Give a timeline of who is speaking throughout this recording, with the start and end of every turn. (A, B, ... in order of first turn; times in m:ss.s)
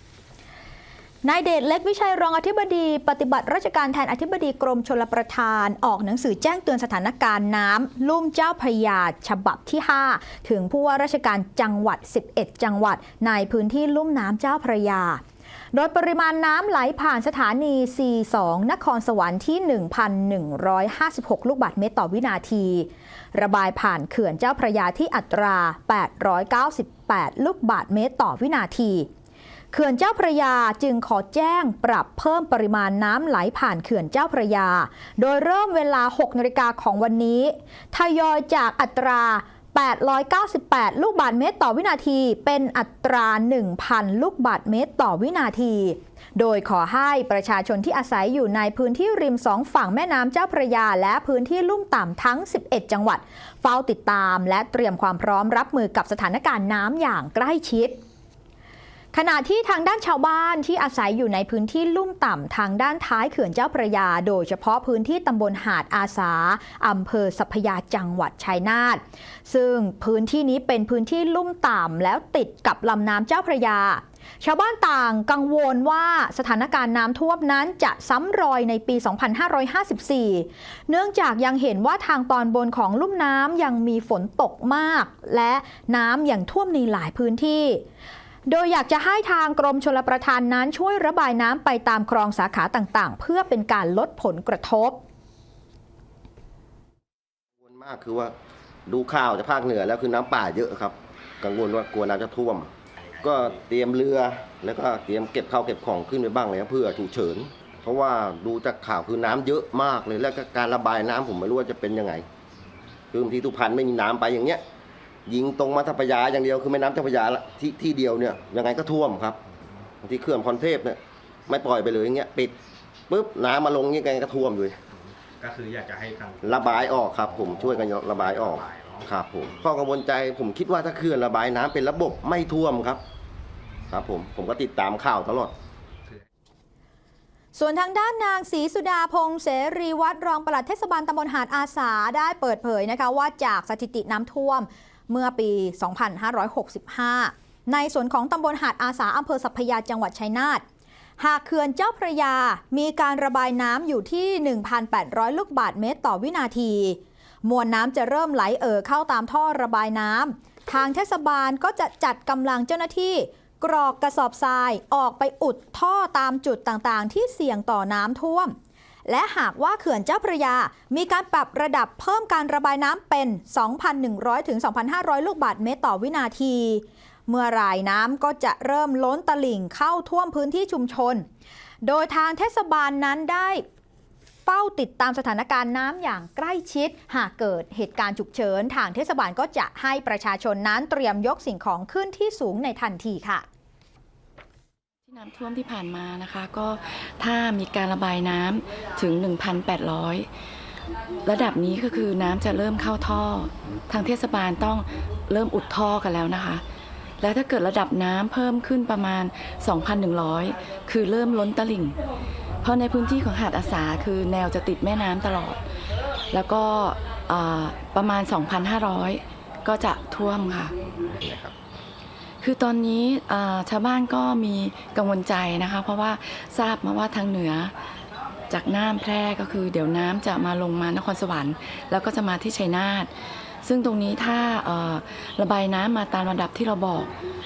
0:01.2-0:15.2 A
0:15.7-0:29.1 A
0:29.7-0:58.0 A
0:59.1-1:27.8 A
1:28.5-1:35.0 A
1:37.6-1:38.3 B
1:38.9-1:42.7 B
1:43.1-1:43.6 C
1:43.2-1:52.2 B
1:53.1-1:54.6 B
1:55.2-1:59.4 B
2:00.0-2:02.5 B
2:03.1-2:04.8 B
2:05.0-2:09.1 C
2:06.4-2:13.0 B
2:13.9-2:15.5 B
2:17.5-2:30.6 A
2:31.2-2:48.5 A
2:49.0-3:01.2 A
3:01.8-3:03.6 A
3:04.4-3:13.4 A
3:15.0-3:20.3 D
3:21.2-3:26.6 D
3:27.2-3:32.0 D
3:32.6-3:35.6 D
3:36.3-3:40.7 D
3:41.2-3:41.5 B
3:42.4-3:47.7 D
3:48.5-3:53.1 D
3:53.6-3:57.1 D